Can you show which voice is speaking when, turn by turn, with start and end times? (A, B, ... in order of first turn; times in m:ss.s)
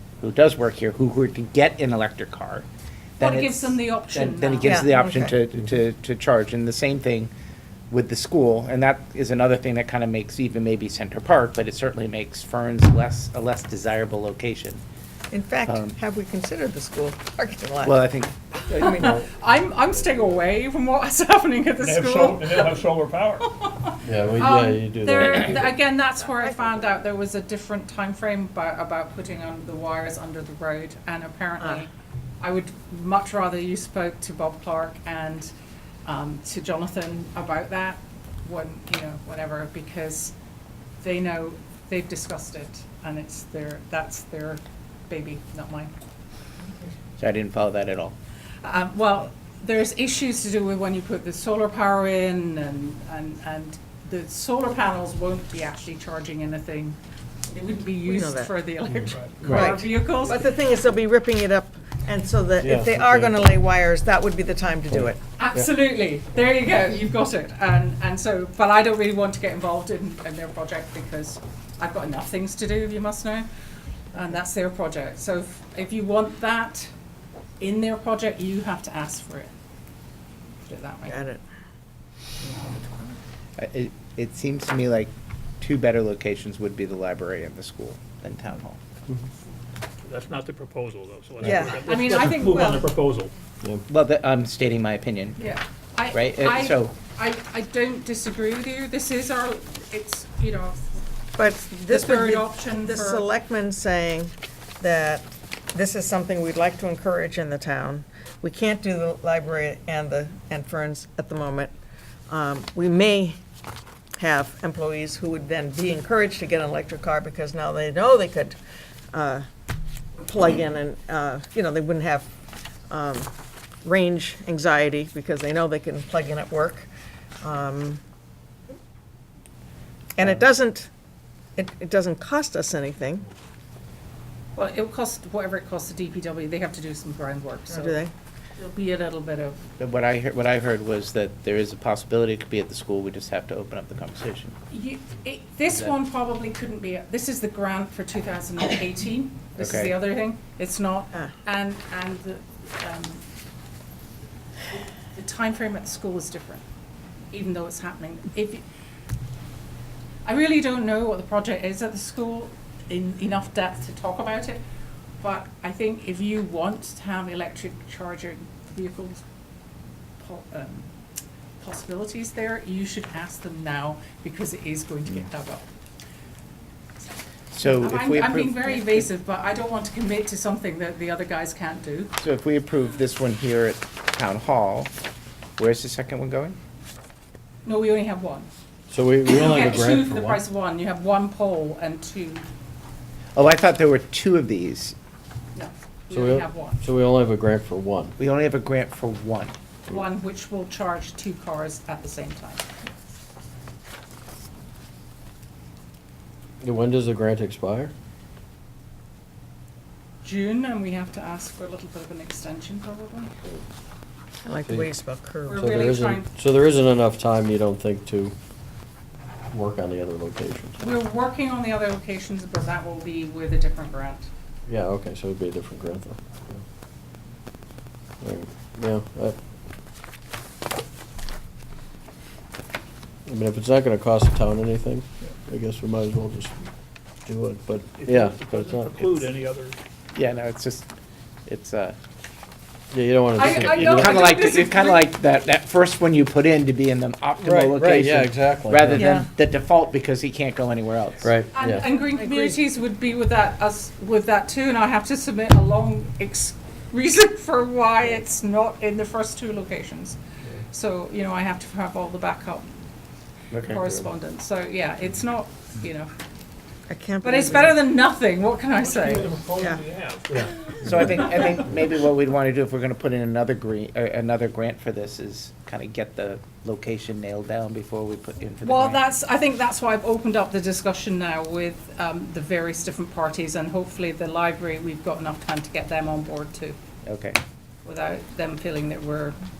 0:00.2-0:02.7 A
0:03.2-0:07.3 A
0:03.2-0:04.9 B
0:04.6-0:05.4 C
0:07.9-0:14.8 A
0:15.3-0:18.0 C
0:15.7-0:16.0 A
0:17.8-0:19.0 A
0:18.7-0:22.7 B
0:18.7-0:19.2 C
0:21.8-0:23.5 D
0:23.4-0:35.5 B
0:24.0-0:25.6 E
0:36.0-0:40.3 B
0:41.0-0:45.9 B
0:47.2-0:48.1 A
0:48.6-0:57.0 B
0:57.5-1:00.4 B
0:58.0-0:58.5 C
0:59.1-0:59.4 D
0:59.4-1:05.2 C
1:02.6-1:03.4 E
1:05.4-1:13.5 B
1:14.1-1:16.9 B
1:17.6-1:19.5 B
1:20.7-1:21.2 B
1:21.1-1:21.4 C
1:22.4-1:23.2 B
1:23.6-1:28.8 A
1:30.0-1:33.3 D
1:31.4-1:31.9 C
1:31.8-1:32.8 B
1:32.4-1:32.8 C
1:33.9-1:35.4 A
1:35.4-1:40.8 B
1:36.1-1:36.9 A
1:41.4-1:51.7 C
1:41.4-1:43.2 B
1:52.3-1:53.4 C
1:54.2-1:58.6 C
1:59.1-1:59.4 C
2:00.2-2:02.3 C
2:02.9-2:03.3 C
2:03.8-2:06.9 C
2:07.4-2:08.0 C
2:10.2-2:10.9 C
2:11.6-2:13.2 C
2:14.6-2:18.0 B
2:17.7-2:18.1 C
2:18.6-2:19.6 B
2:19.8-2:24.6 A
2:24.7-2:33.2 B
2:29.6-2:29.9 A
2:34.7-2:36.6 B
2:37.3-2:38.6 B
2:40.2-2:44.6 B
2:45.2-2:49.2 B
2:50.2-2:50.9 B
2:51.6-2:55.7 B
2:57.5-2:59.1 A
2:57.6-3:02.1 B
3:02.2-3:04.9 A
3:05.6-3:06.6 A
3:07.6-3:08.5 B
3:08.9-3:10.4 E
3:09.3-3:12.5 B
3:13.4-3:14.9 A
3:15.5-3:16.8 B
3:16.1-3:18.1 E
3:18.2-3:19.5 A
3:19.9-3:22.6 B
3:26.6-3:27.9 E
3:30.2-3:33.3 B
3:34.4-3:35.7 C
3:35.5-3:36.3 B
3:35.5-3:38.3 E
3:39.5-3:40.8 E
3:40.8-3:44.3 B
3:44.7-3:46.6 E
3:48.2-3:49.4 E
3:53.2-3:56.6 E
3:57.2-3:59.2 E
3:58.0-3:59.8 D
4:00.2-4:00.9 A
4:01.5-4:02.0 A
4:02.9-4:04.2 E
4:03.3-4:05.2 B
4:03.6-4:11.4 A
4:07.4-4:09.2 E
4:08.9-4:09.3 C
4:11.2-4:11.8 E
4:11.5-4:20.2 B
4:12.2-4:12.5 C
4:20.7-4:22.7 B
4:23.5-4:24.0 A
4:23.6-4:26.1 B
4:26.9-4:27.8 C
4:27.2-4:29.3 B
4:28.8-4:31.6 D
4:29.6-4:29.8 C
4:30.8-4:39.0 A
4:38.6-4:46.8 B
4:47.0-4:47.4 A
4:47.8-4:49.4 B